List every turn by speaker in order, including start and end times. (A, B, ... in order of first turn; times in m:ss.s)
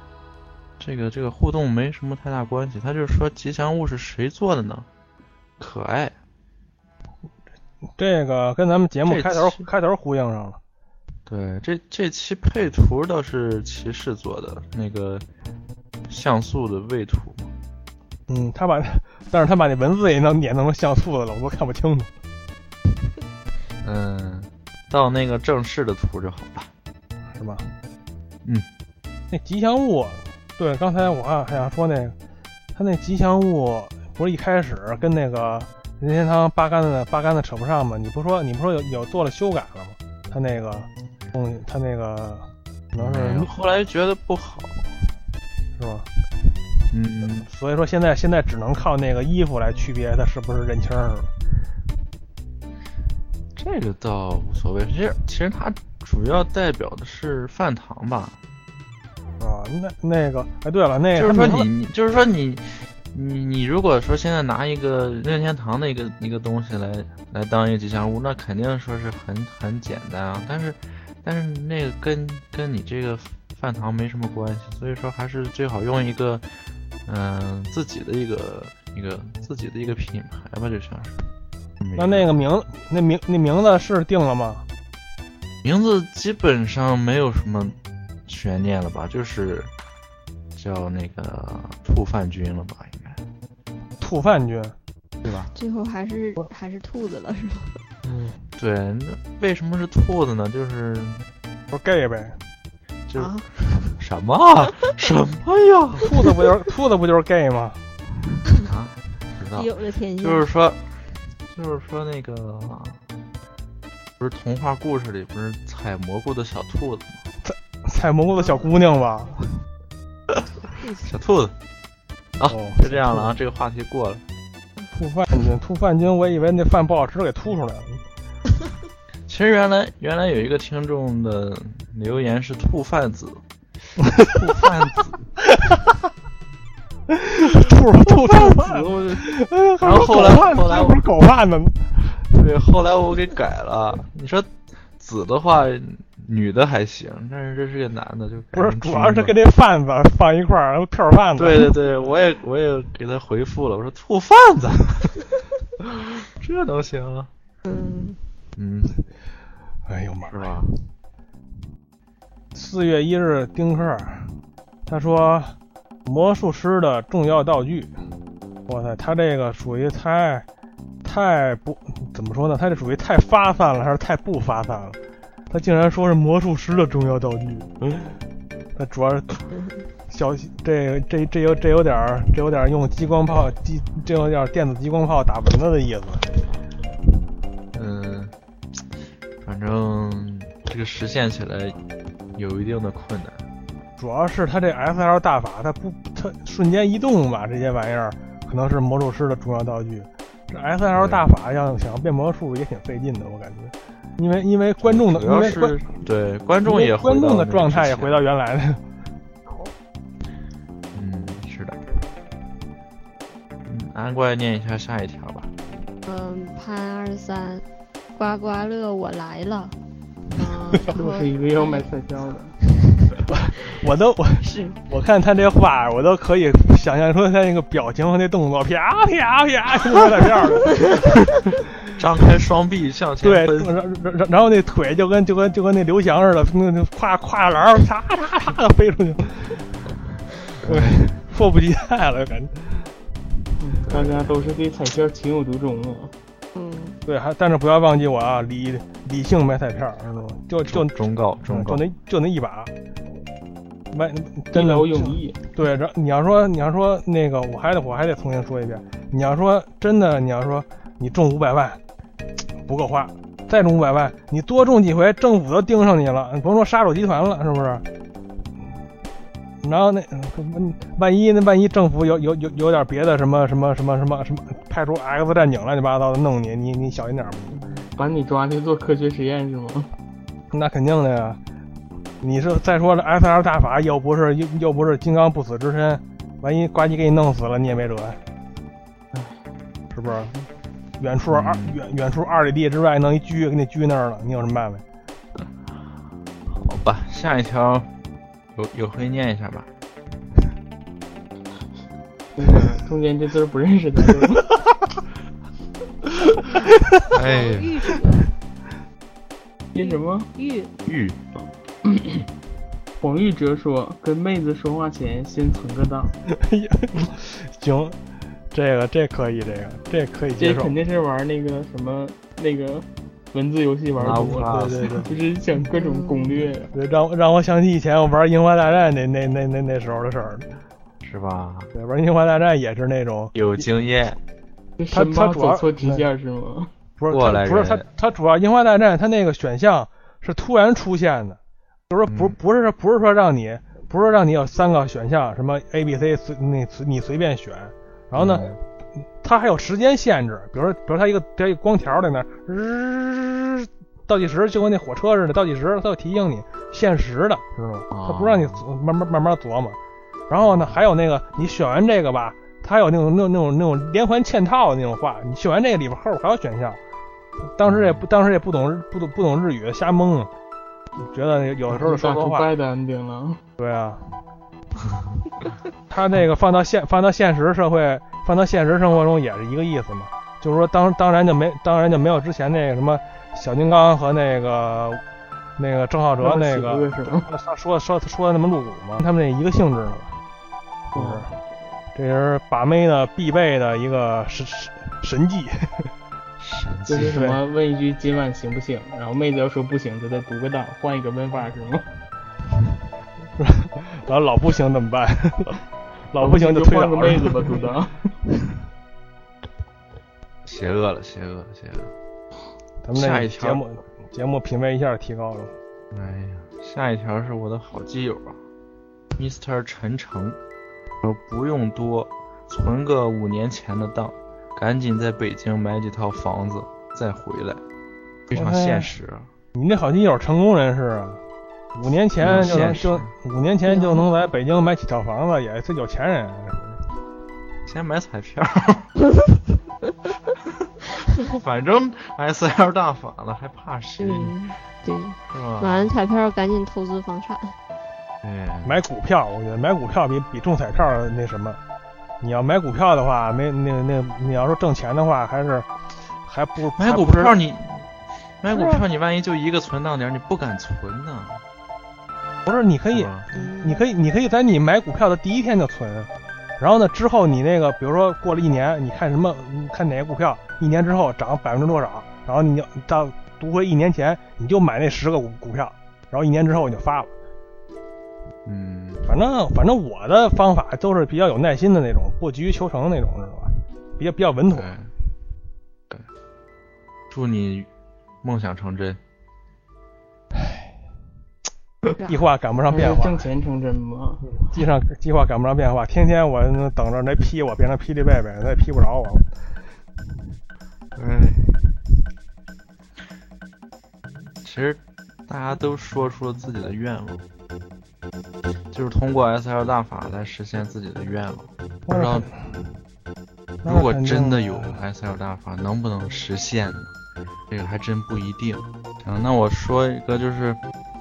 0:00.8-0:04.8 A
0:05.6-0:06.1 A
0:08.0-0:10.6 B
0:09.0-0:09.6 A
0:11.3-0:15.2 A
0:16.1-0:17.5 A
0:18.3-0:22.1 B
0:23.8-0:26.7 A
0:27.3-0:27.6 B
0:29.3-0:32.2 B
0:32.7-0:43.5 B
0:43.0-0:44.9 A
0:45.8-0:46.1 B
0:46.9-0:47.5 A
0:47.4-0:51.3 B
0:53.5-0:58.4 A
0:59.4-1:01.7 B
1:01.1-1:16.5 A
1:17.0-1:21.2 A
1:21.8-1:22.3 A
1:21.9-1:24.6 B
1:25.6-1:27.8 A
1:28.3-1:29.7 A
1:30.6-1:33.2 A
1:34.0-1:34.7 B
1:35.2-1:35.5 A
1:35.5-1:37.8 C
1:38.0-1:38.3 B
1:38.6-1:41.2 A
1:41.7-1:42.4 B
1:43.1-1:43.3 A
1:43.2-1:43.9 C
1:44.0-1:46.1 A
1:46.0-1:47.8 B
1:48.6-1:49.7 A
1:49.5-1:50.5 C
1:50.2-1:50.8 A
1:51.5-1:53.0 A
1:54.2-1:57.2 A
1:57.4-1:59.6 B
2:00.8-2:01.1 C
2:01.0-2:01.5 A
2:02.4-2:04.2 A
2:02.5-2:03.4 B
2:04.9-2:08.0 B
2:09.3-2:13.4 A
2:14.3-2:15.2 A
2:17.1-2:22.0 B
2:18.4-2:19.2 D
2:19.8-2:21.0 A
2:22.3-2:29.3 A
2:28.5-2:31.7 B
2:31.4-2:35.1 A
2:36.4-2:37.3 A
2:37.6-2:38.2 C
2:38.6-2:39.0 A
2:39.9-2:40.7 B
2:40.3-2:40.7 A
2:42.5-2:44.3 B
2:44.8-2:47.9 B
2:48.7-2:50.4 B
2:51.0-2:55.0 B
2:55.5-2:57.7 B
2:58.8-2:59.4 B
3:00.1-3:06.3 B
3:07.7-3:08.3 A
3:09.4-3:11.8 A
3:12.3-3:13.4 A
3:14.0-3:25.8 B
3:20.9-3:21.2 A
3:24.8-3:28.2 A
3:26.6-3:28.8 B
3:30.9-3:31.8 A
3:33.6-3:35.5 A
3:36.0-3:37.6 C
3:38.1-3:39.7 C
3:40.4-3:41.8 C
3:40.9-3:42.5 D
3:43.3-3:51.0 B
3:44.4-3:44.8 C
3:52.0-3:53.7 A
3:53.2-3:59.6 B
4:00.6-4:02.9 B
4:00.6-4:01.2 A
4:03.6-4:06.1 D
4:03.9-4:04.1 A
4:06.5-4:07.0 C
4:07.0-4:12.7 B
4:10.6-4:11.8 A
4:13.9-4:21.8 B
4:14.5-4:15.4 D
4:22.6-4:27.8 B
4:29.6-4:37.6 B
4:37.5-4:39.9 D
4:40.5-4:41.4 B
4:42.2-4:48.2 B
4:49.9-4:50.3 B
4:51.0-4:54.8 B
4:51.3-4:51.8 A
4:56.5-4:57.9 A
4:58.5-4:59.7 A
5:02.4-5:04.5 D
5:07.1-5:07.8 A
5:07.1-5:08.3 C
5:09.7-5:10.3 D
5:09.8-5:10.7 C
5:10.8-5:11.2 A
5:11.8-5:12.2 D
5:13.0-5:16.1 D
5:16.3-5:18.0 B
5:18.5-5:20.7 B
5:20.4-5:26.7 D
5:24.0-5:25.0 A
5:24.0-5:25.1 B
5:25.8-5:26.4 C
5:26.7-5:30.5 B
5:31.0-5:31.7 A
5:31.7-5:33.6 B
5:33.3-5:34.2 A
5:34.8-5:36.7 D
5:34.9-5:36.1 B
5:37.0-5:41.4 B
5:37.1-5:37.8 A
5:41.9-5:48.5 B
5:42.1-5:42.4 A
5:48.2-5:48.6 A
5:49.2-5:59.8 B
5:57.9-5:58.6 A
6:00.3-6:06.8 B
6:07.6-6:10.3 B
6:07.7-6:08.0 A
6:11.0-6:12.5 B
6:11.7-6:13.4 D
6:13.6-6:14.2 B
6:15.9-6:25.0 B
6:25.6-6:30.2 B
6:26.2-6:27.3 D
6:30.9-6:31.3 B
6:30.9-6:31.3 D
6:31.9-6:35.9 B
6:36.4-6:37.2 A
6:36.9-6:41.8 D
6:37.0-6:37.4 B
6:43.4-6:45.6 B
6:46.1-6:47.5 B
6:46.2-6:48.1 D
6:50.4-6:51.9 A
6:52.8-6:55.5 B
6:52.9-6:53.6 A
6:55.9-6:58.4 A
6:59.2-7:00.4 A
7:01.0-7:07.6 A
7:08.3-7:09.3 A
7:08.3-7:08.9 B
7:09.5-7:11.2 B
7:11.8-7:16.8 B
7:12.2-7:13.1 A
7:13.7-7:14.0 C
7:17.6-7:18.9 A
7:21.2-7:24.4 A
7:24.0-7:27.5 C
7:25.3-7:25.9 A
7:28.2-7:28.8 A
7:28.6-7:31.6 B
7:32.2-7:35.7 B
7:36.2-7:37.4 B
7:36.8-7:37.9 A
7:38.4-7:41.4 A
7:38.5-7:38.8 C
7:42.4-7:57.1 B
7:42.9-7:43.2 A
7:43.3-7:43.8 C
7:58.4-7:59.1 A
7:59.0-8:04.7 B
8:04.5-8:04.9 A
8:07.1-8:07.7 A
8:08.2-8:09.0 A
8:12.0-8:13.3 B
8:12.7-8:14.4 D
8:14.4-8:19.3 B
8:20.9-8:21.7 A
8:24.4-8:27.2 A
8:28.7-8:32.3 A
8:31.9-8:32.7 B
8:33.6-8:34.8 B
8:33.6-8:36.9 A
8:37.5-8:40.6 A